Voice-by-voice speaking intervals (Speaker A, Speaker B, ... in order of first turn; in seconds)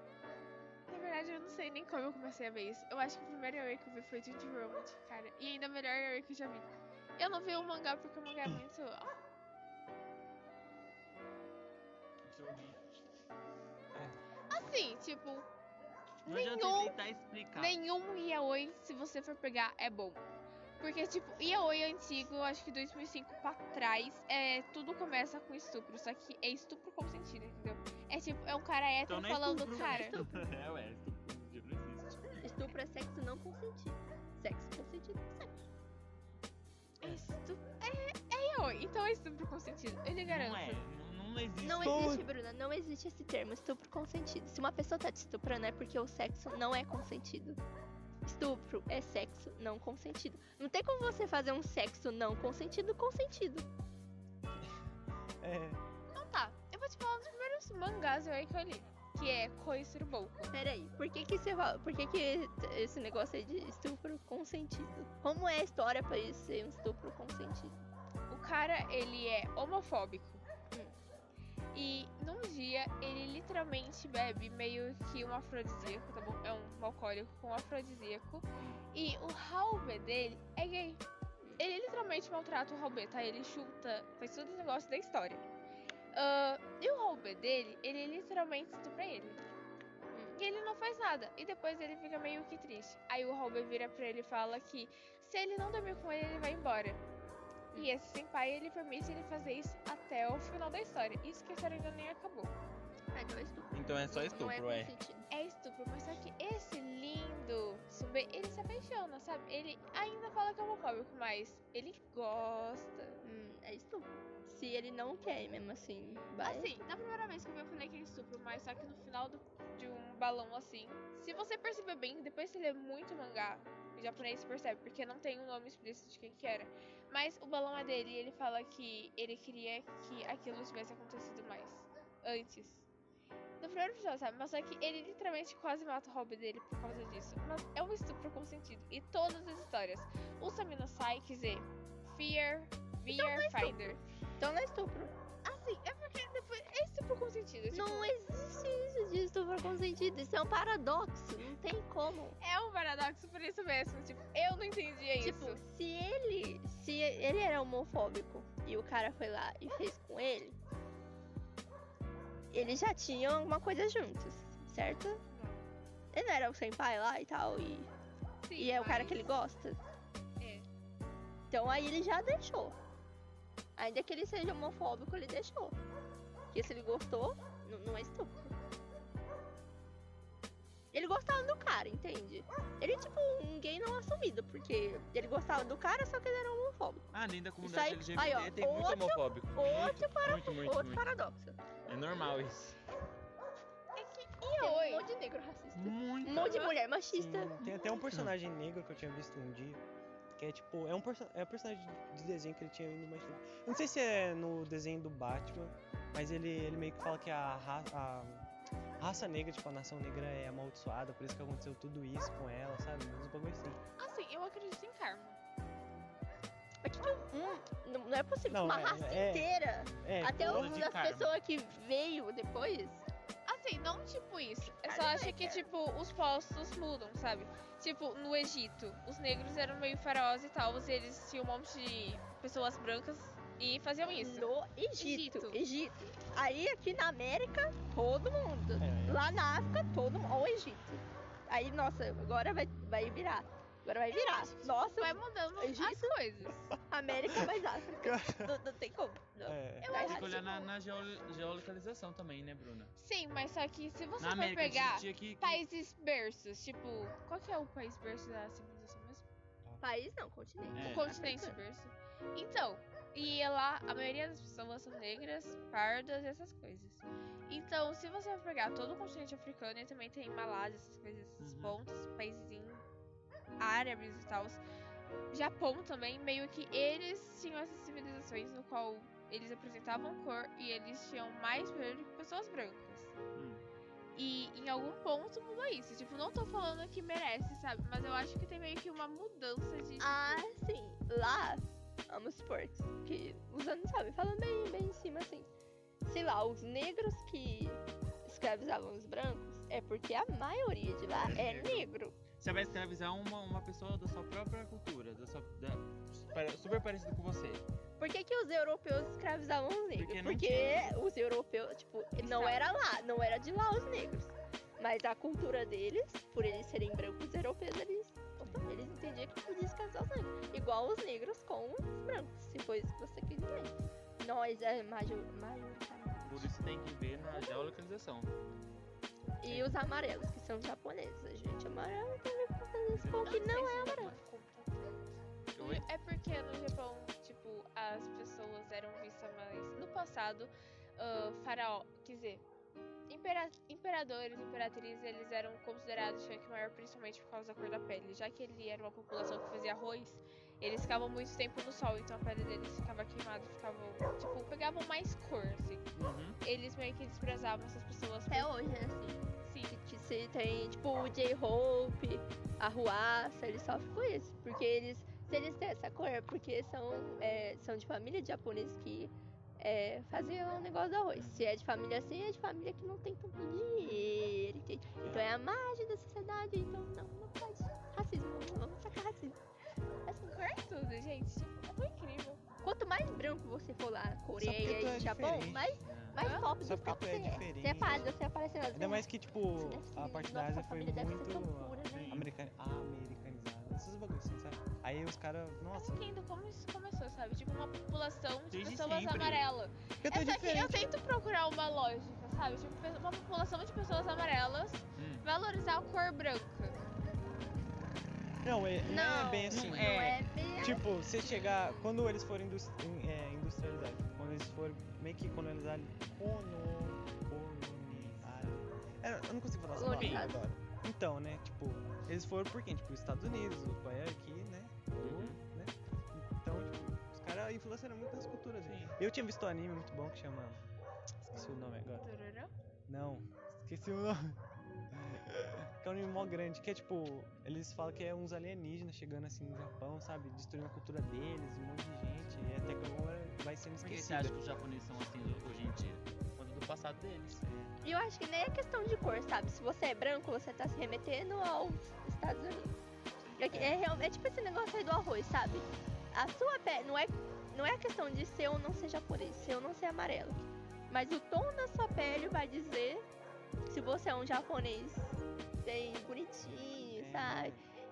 Speaker A: 0.9-9.1, 14.5-15.5, 16.2-16.9, 17.5-20.2, 20.8-30.2, 37.0-40.8, 56.1-60.5, 68.3-70.4, 71.7-81.0, 81.6-85.4, 86.1-89.4, 90.3-97.0, 97.7-102.5, 105.3-113.2, 116.4-132.9, 133.6-144.0, 145.4-148.1, 152.4-155.6, 165.3-165.7, 168.4-169.3, 170.4-170.7, 193.9-195.1, 196.3-196.7, 214.0-215.4, 223.4-235.6, 244.1-246.7, 249.8-250.5, 252.9-259.2, 260.8-272.8, 273.6-274.6, 275.3-283.1, 284.1-290.5, 312.2-312.7, 333.2-334.9, 335.6-342.4, 343.1-355.9, 356.4-358.5, 359.4-359.7, 380.1-382.4, 386.2-386.5, 395.7-406.8, 431.9-432.5
Speaker B: 12.3-12.8, 16.2-17.8, 29.1-32.4, 40.2-42.2, 103.7-104.9, 187.1-191.1, 191.8-192.8, 195.7-196.8, 220.3-221.4, 249.9-252.9, 254.2-255.6, 260.7-261.1, 271.4-271.8, 283.3-283.6, 301.0-307.6, 309.9-311.0, 326.2-328.3, 332.9-333.5, 335.5-335.9, 355.9-356.4, 371.1-371.5, 385.8-386.2, 391.9-392.3, 398.5-399.4, 405.0-405.3, 409.5-410.2, 418.0-418.6, 419.9-420.3, 425.0-425.4, 428.6-429.0, 443.8-447.4, 453.2-453.5
Speaker C: 29.7-30.3, 32.4-35.6, 41.6-47.6, 48.2-53.7, 60.5-67.8, 90.1-90.4, 103.1-105.3, 113.2-116.8, 143.1-145.1, 147.7-152.4, 155.2-160.6, 162.5-165.2, 166.1-167.9, 168.6-169.8, 171.5-172.8, 173.8-175.8, 176.5-178.6, 180.9-187.1, 187.6-191.6, 194.4-197.8, 216.8-223.0, 224.8-225.7, 234.2-246.2, 246.9-250.7, 259.8-261.6, 290.0-295.5, 296.0-302.2, 308.0-326.5, 327.3-327.7, 329.4-334.1, 358.3-379.4, 382.6-392.2, 408.8-411.0, 419.7-420.4, 447.8-452.8, 453.4-463.0, 463.7-467.6
Speaker D: 41.8-42.3, 55.4-55.8, 197.1-199.8, 200.4-208.5, 209.0-213.8, 218.5-220.8, 238.8-239.2, 247.3-248.5, 249.4-249.9, 375.0-375.3, 384.4-385.8, 386.6-388.1, 388.7-396.0, 400.0-400.9, 408.4-430.6, 431.2-432.1, 432.9-434.4, 434.9-444.4, 453.5-453.8, 466.9-467.6